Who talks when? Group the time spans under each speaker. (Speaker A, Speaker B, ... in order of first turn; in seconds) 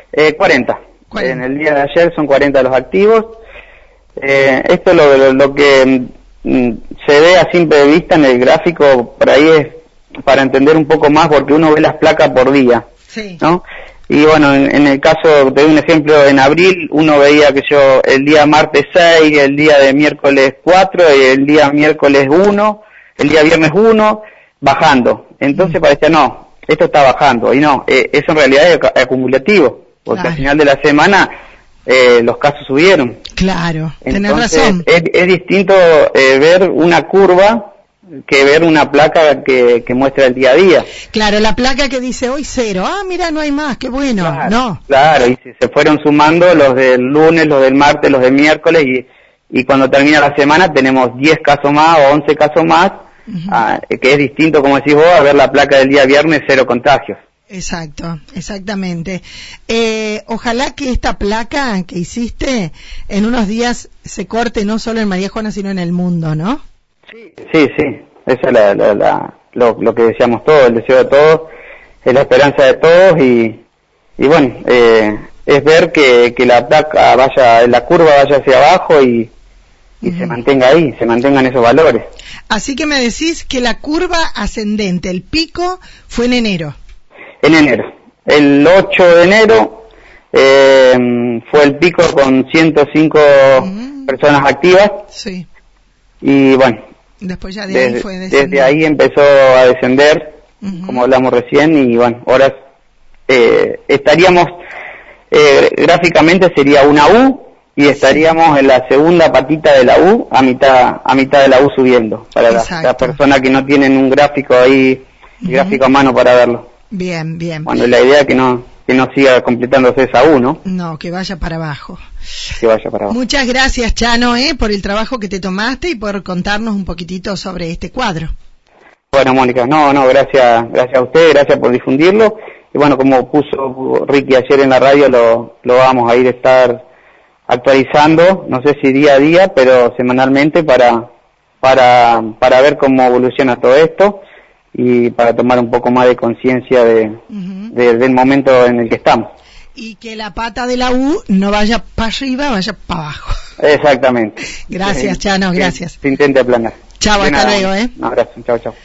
Speaker A: 0.1-3.4, 4.2-12.9, 13.4-31.3, 31.9-33.2, 34.0-37.7, 38.3-40.9, 44.2-57.2, 67.1-71.5, 72.0-73.6, 74.2-79.3, 80.0-82.1, 87.4-95.0, 96.2-96.8, 97.7-102.5, 103.3-104.6, 105.3-116.7, 117.7-120.6, 122.6-123.2, 129.1-136.8, 137.5-141.1, 141.6-144.2, 144.7-149.3, 153.6-158.8
Speaker B: 1.1-1.4, 13.1-13.4, 30.1-30.4, 33.4-34.9, 41.1-44.8, 53.3-53.6, 57.5-66.6, 80.0-80.3, 82.5-86.8, 93.6-94.1, 95.1-95.5, 97.2-98.8, 100.6-101.0, 112.5-113.2, 115.4-115.8, 116.9-117.7, 120.7-122.0, 123.1-128.3, 147.3-147.7, 149.8-153.4, 154.7-156.0, 157.0-157.9